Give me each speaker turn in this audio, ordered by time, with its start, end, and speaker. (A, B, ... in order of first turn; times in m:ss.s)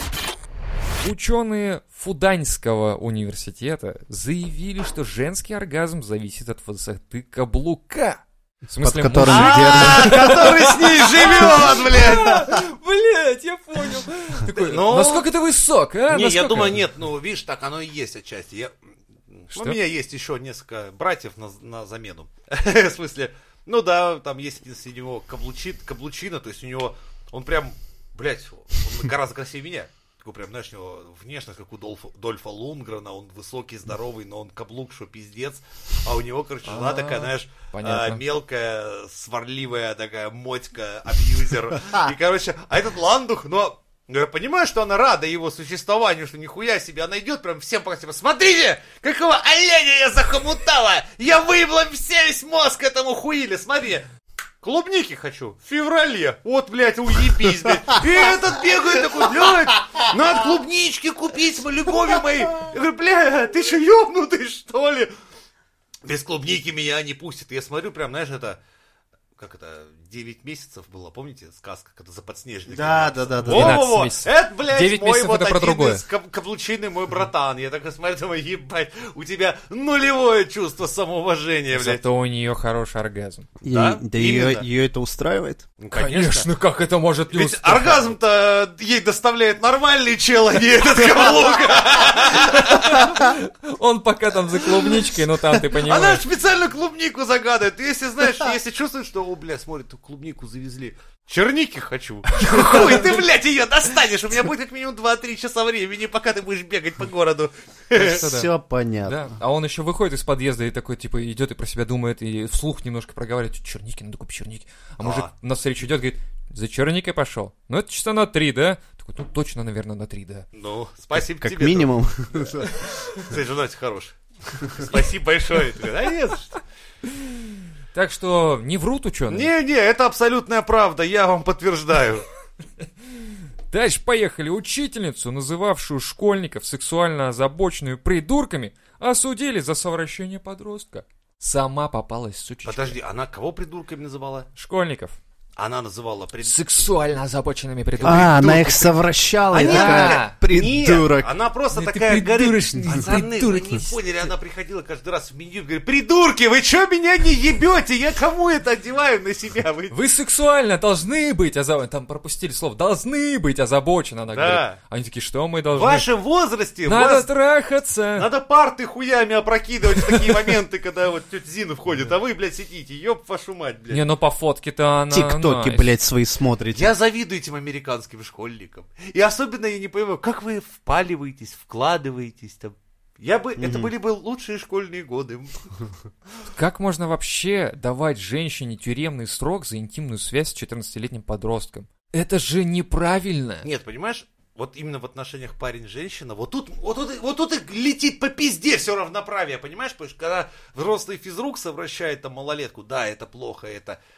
0:01.0-0:16.8 A
0:08.8-0:10.6 B
0:09.2-0:12.5 C
0:14.5-0:15.3 C
0:16.1-0:18.7 C
0:19.3-0:54.1 C
0:19.5-0:19.8 A
0:36.6-0:38.2 A
0:54.6-1:05.1 C
1:06.0-1:08.6 C
1:09.4-1:22.0 C
1:12.7-1:13.8 B
1:13.5-1:16.0 A
1:21.7-1:23.5 A
1:23.6-1:25.6 B
1:23.7-1:24.7 C
1:25.8-1:26.5 C
1:25.9-1:28.2 A
1:27.3-1:33.2 C
1:32.4-1:36.2 A
1:34.7-1:48.3 C
1:42.3-1:43.2 A
1:47.9-1:48.5 A
1:48.0-1:49.3 B
1:49.0-2:00.5 A
1:55.0-1:55.3 C
2:00.5-2:06.6 C
2:01.4-2:02.7 B
2:07.2-2:09.5 A
2:09.3-2:12.3 C
2:13.7-2:23.0 A
2:22.6-2:24.5 C
2:24.6-2:25.2 A
2:25.6-2:26.6 C
2:26.4-2:28.4 A
2:28.0-2:40.0 C
2:28.0-2:31.3 B
2:29.6-2:30.4 A
2:31.7-2:34.0 A
2:39.9-2:46.1 A
2:44.3-2:44.8 C
2:45.7-2:47.3 C
2:46.9-2:48.3 A
2:48.2-2:54.0 C
2:53.9-2:55.9 A
2:55.1-2:56.9 B
2:56.7-3:05.7 C
3:03.6-3:03.9 B
3:06.5-3:13.7 A
3:13.6-3:24.0 C